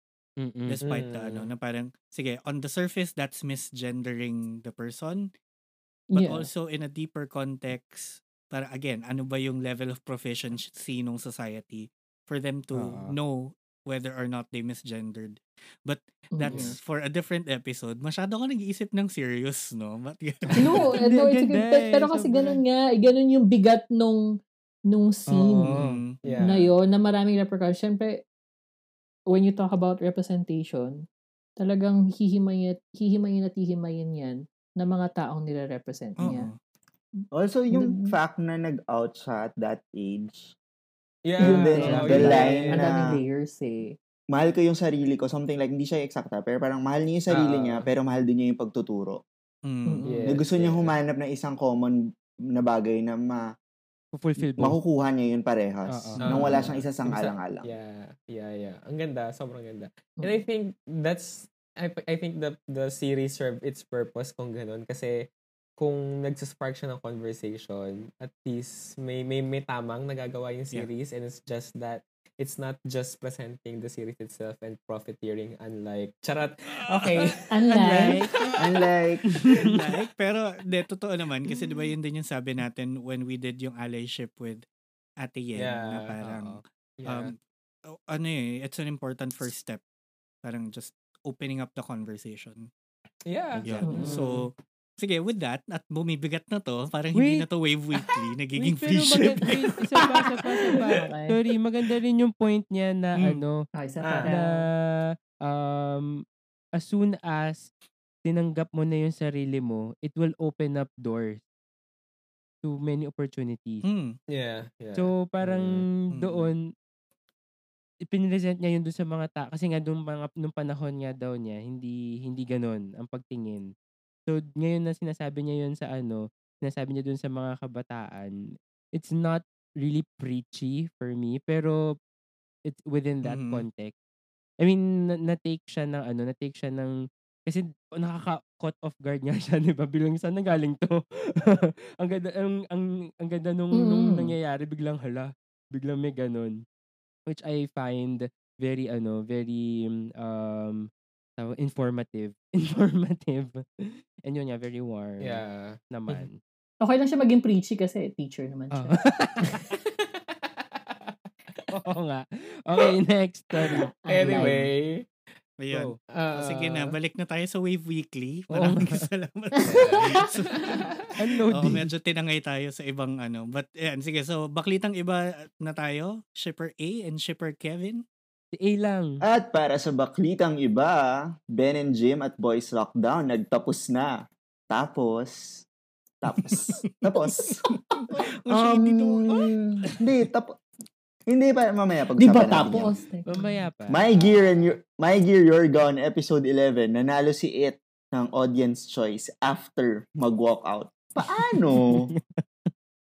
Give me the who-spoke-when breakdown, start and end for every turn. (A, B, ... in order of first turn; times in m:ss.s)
0:00.4-0:00.8 A
0:00.7-0:05.3 B
0:00.8-0:01.5 C
0:06.1-0:06.5 D
0:06.1-0:20.9 B
0:12.7-0:13.2 A
0:16.3-0:16.7 D
0:20.5-0:24.4 D
0:21.0-0:22.6 A
0:24.9-0:25.8 D
0:25.3-0:26.0 A
0:25.5-0:26.2 B
0:26.2-0:26.7 C
0:26.4-0:28.2 D
0:29.3-0:31.0 D
0:31.6-0:36.5 D
0:36.2-0:36.6 B
0:37.2-0:38.1 D
0:37.3-0:40.6 E
0:41.2-0:42.9 C
0:41.4-0:43.2 E
0:41.4-0:44.0 D
0:41.8-0:42.4 A
0:44.3-0:49.2 E
0:47.3-0:47.9 C
0:49.6-0:50.1 B
0:49.9-0:50.3 D
0:50.0-0:50.9 C
0:50.3-0:53.5 E
0:54.2-0:54.8 A
0:54.4-0:57.7 E
0:55.9-0:56.2 A
0:56.2-1:17.6 C
1:17.5-1:18.2 D
1:17.7-1:18.5 A
1:18.6-1:19.2 E
1:19.3-1:19.8 A
1:19.5-1:24.6 B
1:25.2-1:27.4 B
1:25.6-1:26.2 C
1:26.2-1:26.6 A
1:27.0-1:27.3 C
1:27.9-1:29.8 B
1:30.4-1:32.7 B
1:33.2-1:34.2 C
1:33.6-1:34.1 A
1:33.6-1:39.5 B
1:33.9-1:34.3 D
1:37.2-1:37.5 A
1:38.6-1:43.6 A
1:40.4-1:41.4 D
1:43.8-1:44.7 D
1:44.0-1:44.3 C
1:44.2-1:46.2 A
1:46.8-1:47.7 A
1:48.3-1:51.4 A
1:52.6-1:53.8 A
1:53.8-1:54.1 B
1:54.3-1:55.8 C
1:55.0-1:56.6 A
1:56.1-1:56.5 B
1:58.1-2:03.7 A
2:04.3-2:08.3 A
2:09.0-2:12.0 A
2:12.7-2:13.9 A
2:13.2-2:13.6 B
2:14.6-2:16.9 A
2:17.5-2:26.6 A
2:23.8-2:24.3 D
2:27.3-2:36.4 A
2:35.2-2:36.2 C
2:36.8-2:39.1 D
2:38.7-2:39.6 A
2:39.7-2:41.7 C
2:41.7-2:44.5 A
2:43.7-2:45.1 C
2:43.7-2:44.7 D
2:45.6-2:50.9 B
2:46.1-2:47.0 C
2:48.5-2:49.0 A
2:49.6-2:51.1 C
2:51.2-2:51.8 A
2:51.5-2:58.0 B
2:58.5-2:59.2 A
2:59.2-3:05.7 E
3:06.2-3:10.6 E
3:08.4-3:09.5 B
3:11.3-3:12.9 E
3:12.2-3:13.6 D
3:13.3-3:14.4 A
3:13.9-3:22.1 E
3:21.8-3:22.4 A